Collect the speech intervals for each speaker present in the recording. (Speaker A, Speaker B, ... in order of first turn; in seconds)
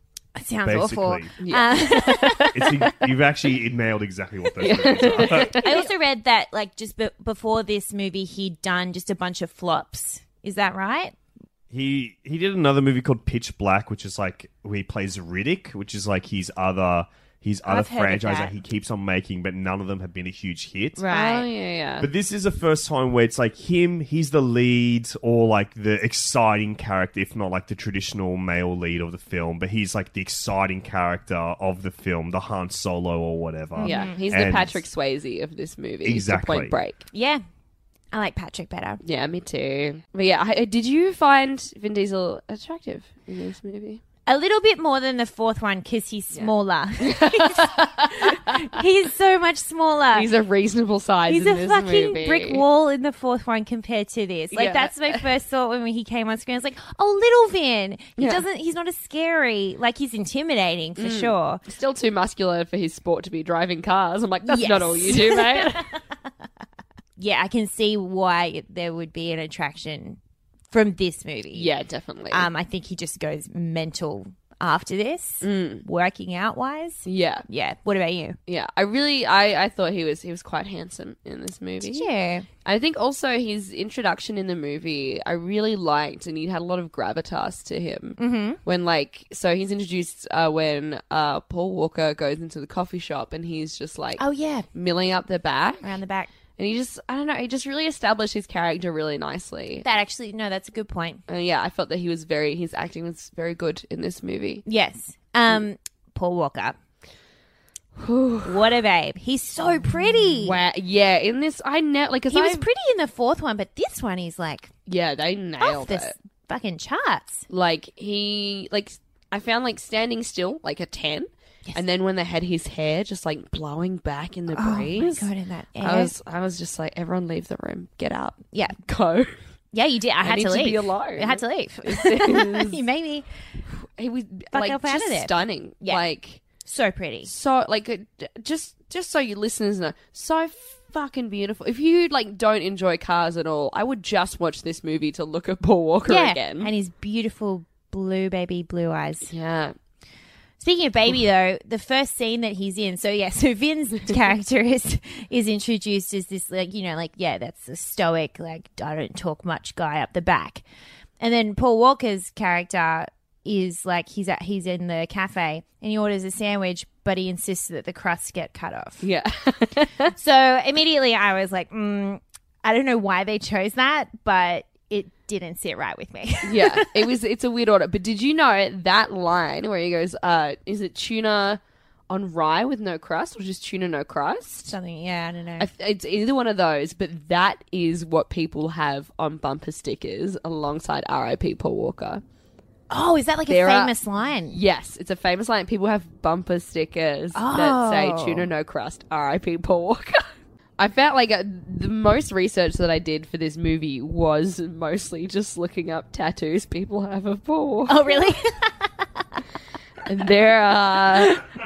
Speaker A: 0.4-3.0, 5.2-11.2, 17.7-18.6, 21.0-21.5, 33.8-34.1, 37.1-37.4, 38.1-39.0, 44.3-50.3, 51.3-61.6, 64.5-65.9, 67.2-70.2, 70.7-71.7, 72.3-78.4, 81.8-82.5, 88.2-88.6, 94.2-94.7, 95.8-96.3, 99.8-101.2, 104.7-106.8, 108.4-110.6, 112.3-114.7, 115.6-117.5, 124.5-126.1, 129.7-133.2, 134.5-136.0, 136.7-137.3, 146.1-149.3, 150.6-160.6, 161.2-169.1, 170.1-177.0, 184.7-185.7, 192.9-194.6, 197.3-198.5, 207.9-208.7
Speaker B: 0.7-1.3, 2.5-5.6, 11.7-21.0, 22.0-34.8, 36.0-36.7
Speaker C: 1.4-2.5, 4.6-5.9, 21.1-22.1, 33.8-37.0, 39.0-44.0, 46.3-48.6, 50.1-52.6, 54.5-55.2, 58.2-58.4, 61.0-65.9, 71.5-72.5, 75.4-75.8, 77.1-77.5, 78.5-82.1, 82.7-94.2, 94.7-95.9, 96.6-99.8, 101.3-104.7, 108.0-108.7, 110.4-112.7, 114.9-116.1, 117.5-125.3, 125.8-129.3, 130.2-132.8, 133.8-136.4, 137.2-146.7, 149.3-149.8, 169.0-170.1, 176.4-184.7, 185.6-192.2, 193.5-194.0, 194.5-208.3, 210.1-211.4